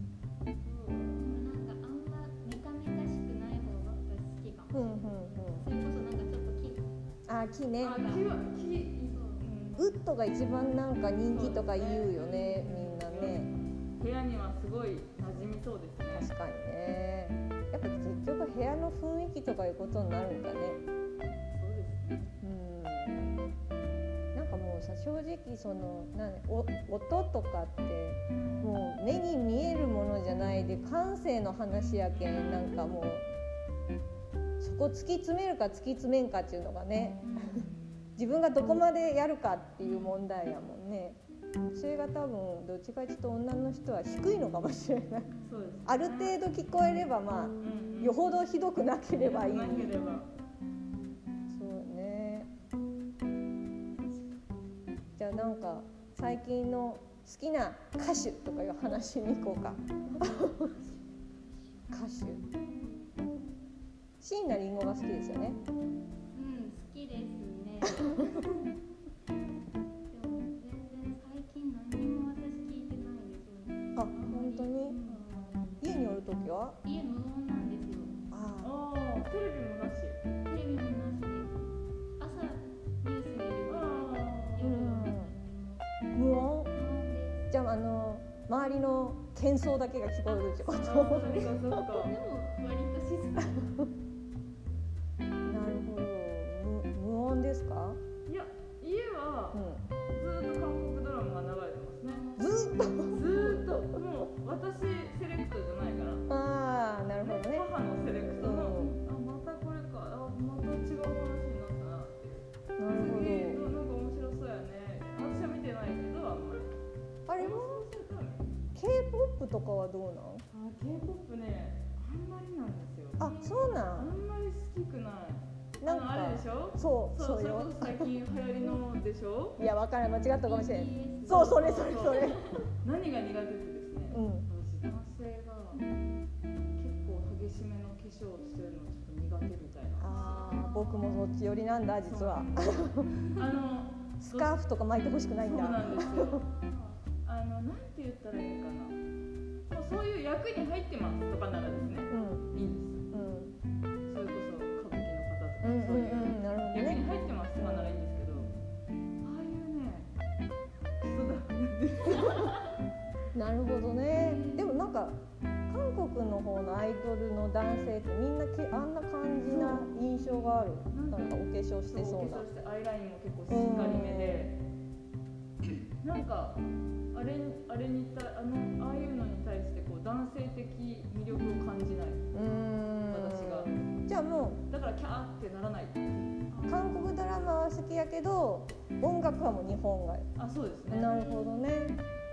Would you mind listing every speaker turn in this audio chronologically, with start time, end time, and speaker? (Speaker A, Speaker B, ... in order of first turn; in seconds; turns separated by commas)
Speaker A: 0.6-1.4, Speaker B: 1.2-6.9, Speaker C: 4.7-5.7, Speaker C: 7.3-8.0, Speaker A: 7.8-10.0, Speaker B: 7.8-8.3, Speaker B: 9.0-9.4, Speaker C: 9.8-13.5, Speaker A: 11.3-16.3, Speaker C: 16.1-20.8, Speaker A: 21.5-22.3, Speaker C: 22.4-23.4, Speaker C: 24.3-33.2, Speaker B: 28.3-28.7, Speaker A: 31.8-32.7, Speaker C: 34.6-37.6, Speaker B: 37.2-37.7, Speaker C: 38.2-41.2, Speaker C: 41.7-45.3, Speaker B: 45.3-45.7, Speaker A: 45.5-46.4, Speaker C: 45.9-50.0, Speaker A: 47.6-48.2, Speaker A: 49.1-50.3, Speaker C: 51.5-52.5, Speaker C: 55.2-60.7, Speaker B: 60.1-62.0, Speaker C: 61.9-62.4, Speaker C: 64.2-65.6, Speaker B: 66.3-68.7, Speaker C: 68.0-68.2, Speaker B: 70.1-75.3, Speaker C: 73.9-75.0, Speaker A: 75.0-75.5, Speaker C: 75.8-76.8, Speaker B: 76.8-78.1, Speaker C: 78.3-78.7, Speaker A: 78.6-80.2, Speaker B: 80.4-81.5, Speaker B: 82.2-85.8, Speaker A: 83.7-84.8, Speaker C: 84.6-85.3, Speaker C: 86.1-86.7, Speaker B: 86.7-87.4, Speaker C: 87.5-91.8, Speaker B: 90.3-93.8, Speaker A: 90.8-92.1, Speaker C: 93.5-93.8, Speaker C: 95.5-98.0, Speaker A: 98.2-102.3, Speaker C: 99.5-99.8, Speaker B: 102.1-103.6, Speaker C: 102.4-103.2, Speaker A: 103.1-106.3, Speaker C: 106.3-107.7, Speaker A: 107.2-116.8, Speaker C: 108.2-108.9, Speaker B: 108.7-109.0, Speaker C: 112.8-113.6, Speaker C: 117.3-117.7, Speaker A: 117.4-118.5, Speaker C: 118.8-120.4, Speaker A: 120.5-123.3, Speaker C: 123.2-124.1, Speaker B: 123.2-123.8, Speaker A: 123.9-129.6, Speaker C: 125.8-128.1, Speaker C: 129.6-132.5, Speaker B: 130.3-132.6, Speaker A: 131.3-135.8, Speaker C: 134.1-134.5, Speaker B: 135.7-136.2, Speaker A: 136.8-140.3, Speaker C: 140.0-143.1, Speaker B: 140.1-141.3, Speaker A: 142.1-144.5, Speaker C: 144.2-146.4, Speaker A: 145.4-146.5, Speaker B: 146.2-147.0, Speaker A: 147.2-149.0, Speaker A: 149.7-153.1, Speaker C: 152.1-152.6, Speaker C: 153.1-153.5, Speaker A: 154.1-158.5, Speaker C: 155.6-157.0, Speaker C: 157.6-158.0, Speaker A: 159.2-160.1, Speaker A: 161.0-162.6, Speaker C: 163.3-172.5, Speaker B: 164.2-164.7, Speaker A: 169.5-169.9, Speaker A: 170.8-174.6, Speaker C: 173.5-174.5, Speaker A: 176.0-176.6, Speaker A: 177.1-182.3, Speaker C: 182.3-184.6, Speaker A: 183.1-183.7, Speaker A: 184.7-186.4, Speaker B: 186.5-187.2, Speaker C: 186.7-190.2, Speaker A: 190.4-191.2, Speaker C: 190.9-192.0, Speaker B: 191.0-191.8